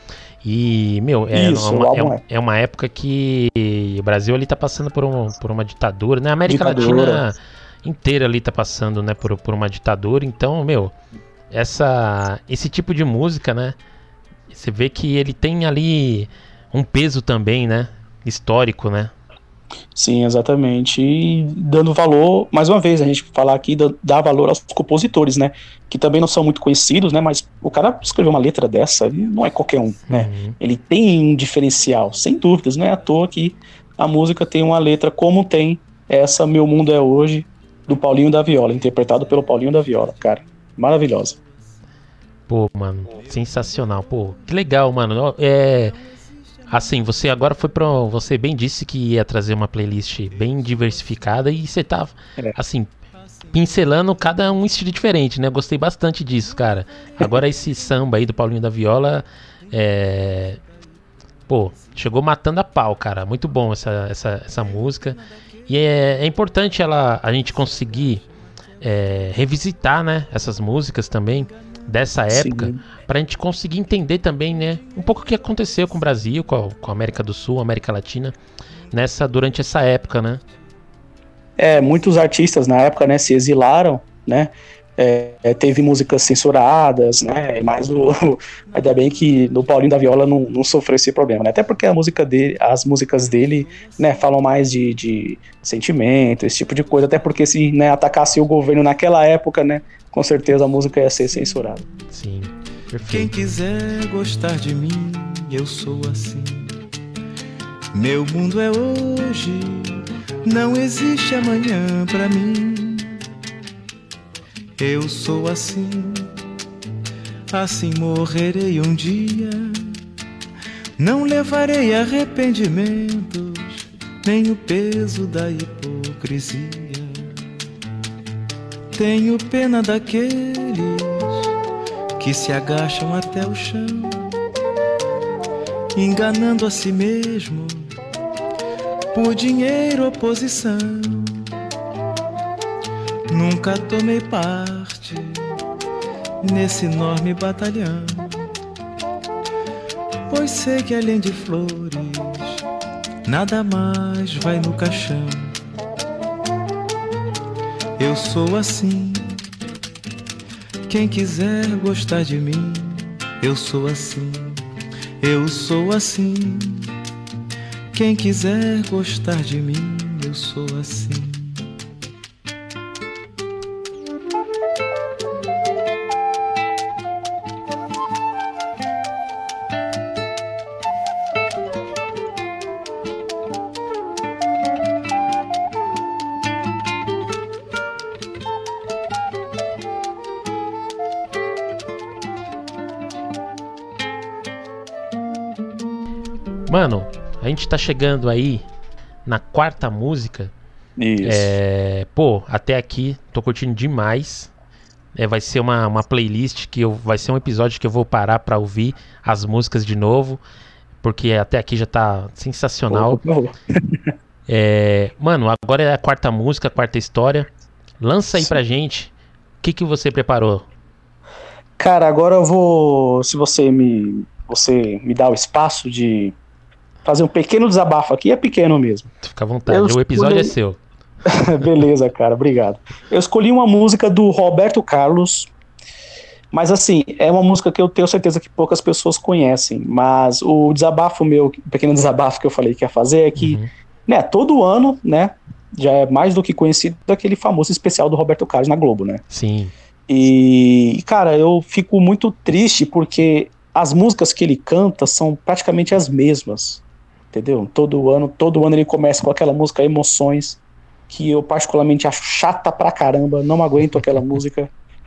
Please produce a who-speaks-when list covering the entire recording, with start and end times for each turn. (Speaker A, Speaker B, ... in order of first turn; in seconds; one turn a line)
Speaker A: 0.4-10.9
Speaker B: 1.3-2.2
Speaker B: 6.5-7.2
Speaker A: 11.5-13.8
Speaker A: 14.5-19.1
Speaker B: 19.9-41.4
Speaker A: 30.1-30.6
Speaker A: 42.5-46.0
Speaker A: 46.7-52.9
Speaker A: 53.5-60.6
Speaker A: 61.5-68.3
Speaker A: 68.8-78.4
Speaker B: 72.3-72.8
Speaker A: 78.9-80.4
Speaker B: 81.6-101.9
Speaker A: 102.1-103.4
Speaker C: 103.1-106.8
Speaker C: 107.9-113.2
Speaker C: 114.8-116.3
Speaker C: 117.5-120.0
Speaker C: 121.0-127.3
Speaker C: 128.9-131.5
Speaker C: 132.2-134.3
Speaker C: 135.9-138.0
Speaker C: 139.1-141.5
Speaker C: 143.3-145.6
Speaker C: 146.4-148.5
Speaker C: 150.3-152.6
Speaker C: 153.2-155.6
Speaker C: 158.0-159.4
Speaker C: 160.9-164.6
Speaker C: 165.2-166.9
Speaker C: 167.9-171.7
Speaker A: 196.7-198.7
Speaker A: 199.3-200.5
Speaker B: 201.0-201.5
Speaker A: 201.2-204.5
Speaker A: 205.2-210.4
Speaker A: 211.0-213.2
Speaker B: 212.9-214.0
Speaker A: 214.5-217.5
Speaker A: 218.0-220.7
Speaker B: 221.8-226.4
Speaker B: 227.1-229.1
Speaker A: 229.2-230.8
Speaker B: 229.7-230.6
Speaker B: 231.3-235.5
Speaker B: 236.5-249.2
Speaker A: 243.4-243.7
Speaker A: 249.3-249.7
Speaker B: 250.1-264.7